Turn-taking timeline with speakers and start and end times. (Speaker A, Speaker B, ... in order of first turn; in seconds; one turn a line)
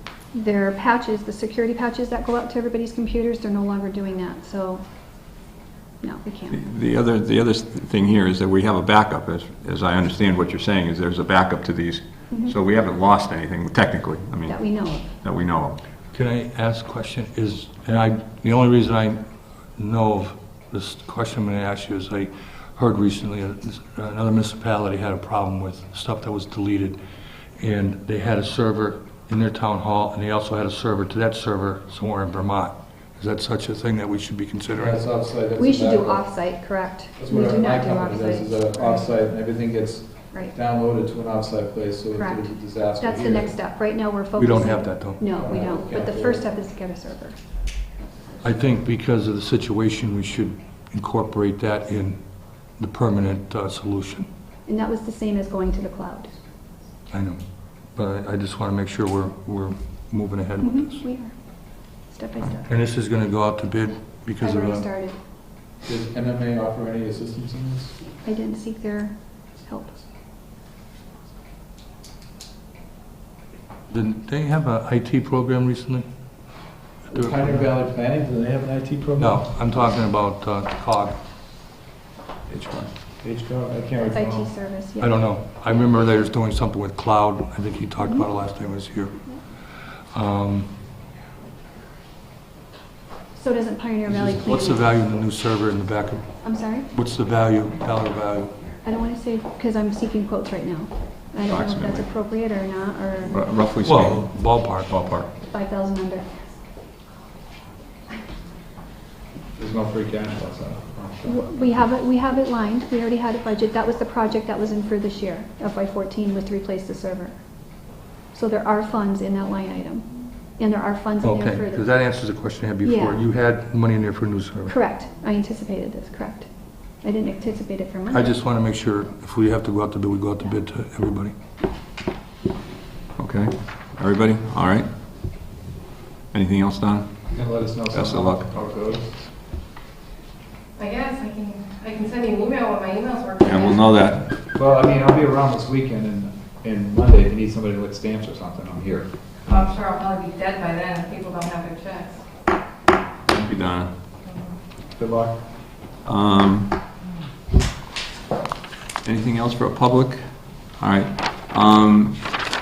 Speaker A: 0.3-4.8
Speaker A: 6.0-6.6
Speaker B: 6.5-15.8
Speaker A: 14.5-15.1
Speaker C: 16.1-19.2
Speaker C: 19.8-27.0
Speaker C: 27.6-35.0
Speaker D: 34.7-36.2
Speaker A: 35.5-38.6
Speaker D: 37.2-43.5
Speaker A: 42.1-47.4
Speaker C: 44.4-45.2
Speaker D: 45.3-46.4
Speaker C: 48.4-52.2
Speaker C: 52.8-54.3
Speaker A: 54.7-56.3
Speaker C: 57.1-57.4
Speaker C: 57.9-61.0
Speaker A: 60.6-61.3
Speaker A: 62.1-62.7
Speaker C: 62.7-64.8
Speaker A: 64.4-65.2
Speaker D: 65.8-67.9
Speaker A: 68.2-70.0
Speaker C: 73.9-76.0
Speaker C: 77.1-77.6
Speaker D: 77.1-79.4
Speaker C: 79.2-81.2
Speaker B: 82.5-82.9
Speaker D: 83.2-84.5
Speaker A: 84.1-85.2
Speaker C: 85.0-89.2
Speaker C: 90.1-90.8
Speaker A: 93.3-94.8
Speaker C: 94.1-96.4
Speaker A: 96.4-96.9
Speaker C: 96.9-98.7
Speaker A: 98.8-103.4
Speaker B: 101.5-102.0
Speaker B: 103.2-104.2
Speaker C: 103.8-105.3
Speaker B: 104.9-105.2
Speaker A: 105.4-106.3
Speaker D: 109.5-111.4
Speaker A: 111.2-117.3
Speaker A: 118.3-121.8
Speaker C: 121.2-124.7
Speaker A: 122.8-123.2
Speaker A: 124.7-126.5
Speaker A: 127.0-128.3
Speaker C: 128.1-131.3
Speaker B: 133.2-134.9
Speaker B: 136.3-137.2
Speaker D: 137.3-139.1
Speaker B: 137.9-138.4
Speaker E: 140.8-143.4
Speaker B: 143.4-144.3
Speaker D: 144.5-149.1
Speaker E: 149.5-152.2
Speaker B: 153.3-153.9
Speaker D: 154.9-155.4
Speaker B: 156.0-156.7
Speaker B: 159.0-160.2
Speaker B: 160.8-162.2